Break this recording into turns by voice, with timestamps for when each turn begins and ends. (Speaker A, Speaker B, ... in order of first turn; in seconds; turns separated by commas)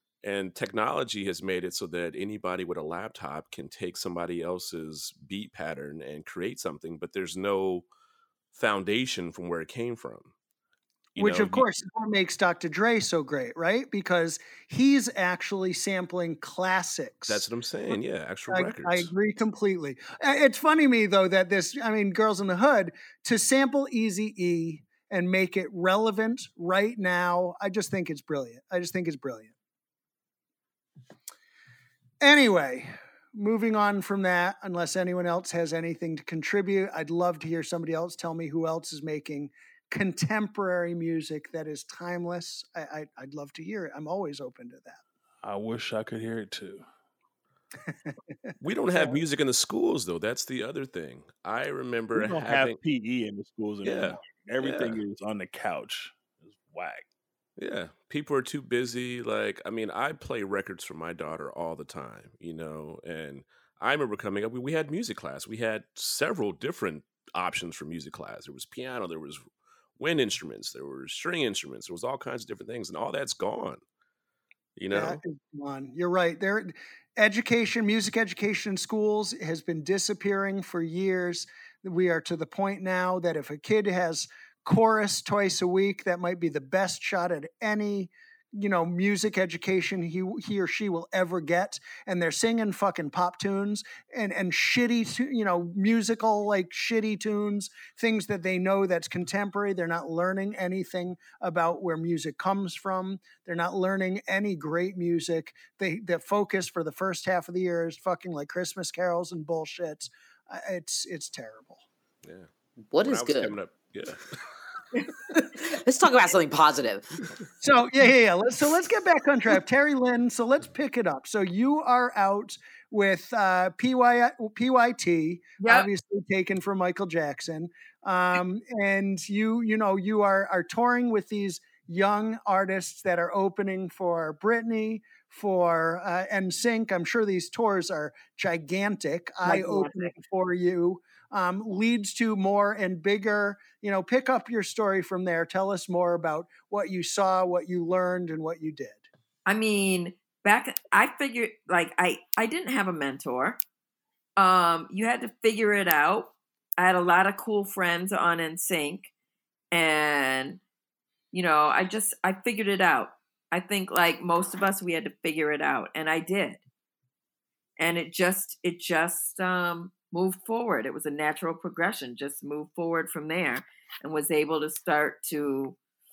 Speaker A: 0.2-7.8, Speaker A: 8.5-10.3, Speaker A: 11.2-11.7, Speaker B: 11.2-17.5, Speaker A: 17.3-19.1, Speaker B: 18.5-29.5, Speaker B: 32.2-45.0, Speaker C: 45.4-46.8, Speaker A: 48.6-52.8, Speaker B: 48.9-49.2, Speaker C: 52.1-57.0, Speaker A: 53.8-55.0, Speaker A: 57.6-69.4, Speaker A: 70.0-73.8, Speaker A: 74.8-75.2, Speaker B: 74.9-111.8, Speaker D: 112.9-113.5, Speaker A: 113.0-114.4, Speaker D: 115.6-117.2, Speaker B: 117.6-149.1, Speaker E: 125.6-125.9, Speaker E: 139.4-140.1, Speaker E: 149.4-153.6, Speaker E: 154.4-159.1, Speaker E: 159.7-160.6, Speaker E: 161.3-166.6, Speaker E: 167.8-175.8